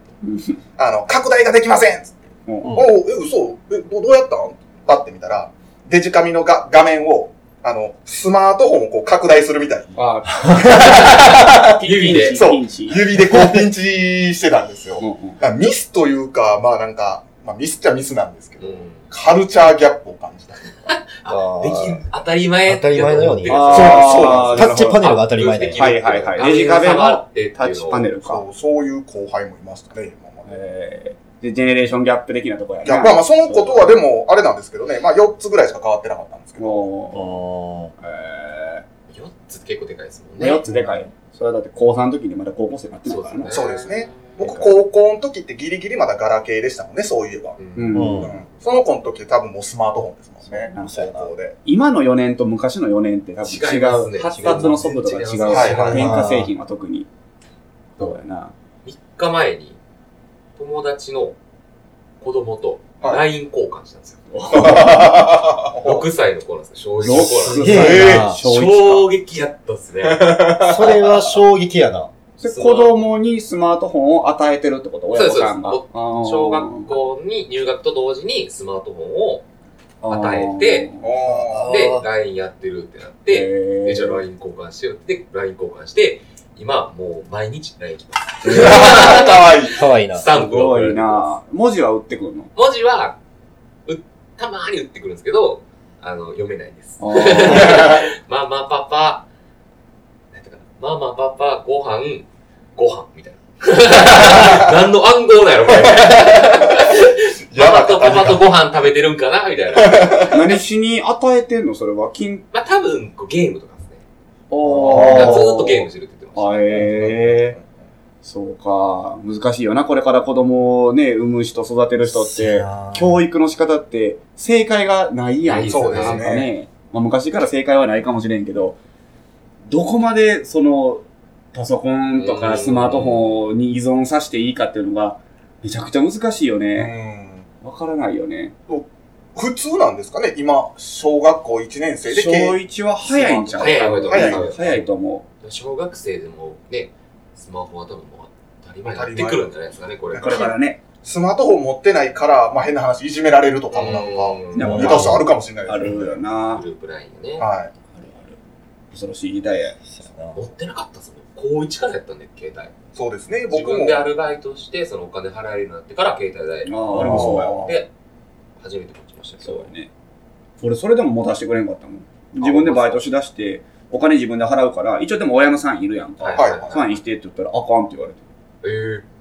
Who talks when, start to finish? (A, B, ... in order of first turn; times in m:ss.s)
0:00.2-0:00.6 A
0:00.8-0:02.2 B
0:02.5-0:02.9 A
0:02.7-0:20.7 B
0:10.0-0:13.7 A
0:11.7-0:12.5 C
0:15.0-0:15.4 A
0:18.6-0:19.1 C
0:20.9-0:28.1 C
0:21.3-0:22.1 D
0:22.6-0:25.8 D
0:23.4-0:25.1 A
0:23.7-0:24.6 B
0:25.8-0:28.4 A
0:28.2-0:30.5 B
0:30.4-0:33.9 A
0:32.8-0:36.9 B
0:36.6-0:37.4 A
0:37.1-0:37.9 D
0:38.0-0:38.8 A
0:39.1-0:40.6 C
0:40.4-0:43.6 A
0:40.6-0:41.1 D
0:43.1-0:44.4 C
0:43.5-0:47.6 B
0:44.4-0:44.7 A
0:47.6-0:48.1 C
0:47.8-0:48.4 A
0:47.9-0:48.4 D
0:48.2-0:51.6 B
0:50.7-0:51.0 A
0:50.7-0:51.3 D
0:51.6-0:57.1 A
0:53.4-0:56.1 C
0:54.4-0:54.8 D
0:55.4-0:56.1 B
0:55.9-0:56.5 D
0:58.0-0:58.5 A
0:58.8-0:59.8 C
1:00.6-1:01.4 C
1:02.2-1:04.7 C
1:04.3-1:05.4 A
1:04.5-1:06.1 B
1:05.8-1:10.8 C
1:07.0-1:09.1 A
1:07.5-1:08.4 D
1:07.6-1:08.3 B
1:10.0-1:11.3 B
1:10.6-1:12.1 D
1:12.4-1:16.9 A
1:12.4-1:13.1 C
1:15.1-1:19.4 C
1:20.0-1:21.1 A
1:20.0-1:20.9 C
1:21.0-1:21.7 B
1:21.2-1:22.1 D
1:21.6-1:31.3 C
1:23.3-1:24.2 A
1:28.4-1:29.2 A
1:28.5-1:29.8 B
1:29.7-1:30.3 D
1:30.3-1:32.5 A
1:32.6-1:33.2 C
1:33.9-1:39.3 C
1:37.0-1:38.0 A
1:37.5-1:38.0 B
1:40.3-1:50.3 C
1:43.9-1:44.7 B
1:45.7-1:48.5 B
1:49.8-1:50.4 B
1:50.3-1:52.4 A
1:52.5-1:54.0 C
1:54.5-1:57.6 A
1:54.6-1:55.4 D
1:54.9-1:56.9 C
1:55.0-1:55.4 B
1:56.7-1:57.6 B
1:58.2-2:08.8 A
2:02.1-2:03.2 D
2:05.4-2:06.3 C
2:05.7-2:06.5 B
2:09.7-2:17.0 A
2:12.2-2:13.4 C
2:16.8-2:17.5 B
2:17.6-2:18.5 A
2:18.7-2:24.7 B
2:22.1-2:25.2 A
2:23.6-2:24.8 C
2:25.4-2:30.5 C
2:28.8-2:29.5 B
2:30.1-2:36.2 B
2:30.2-2:30.8 A
2:33.7-2:35.1 C
2:34.5-2:36.6 A
2:34.6-2:35.2 D
2:36.5-2:37.5 C
2:37.4-2:37.7 B
2:37.9-2:38.4 A
2:38.9-2:39.8 A
2:39.9-2:40.4 D
2:40.4-2:42.7 C
2:43.0-2:44.0 B
2:43.5-2:47.9 C
2:46.7-2:47.8 A
2:46.9-2:47.7 B
2:48.6-2:49.7 C
2:49.4-2:49.9 A
2:50.6-2:58.2 A
2:52.4-2:53.0 C
2:56.2-2:56.8 C
2:56.4-2:56.9 B
2:58.6-2:59.0 C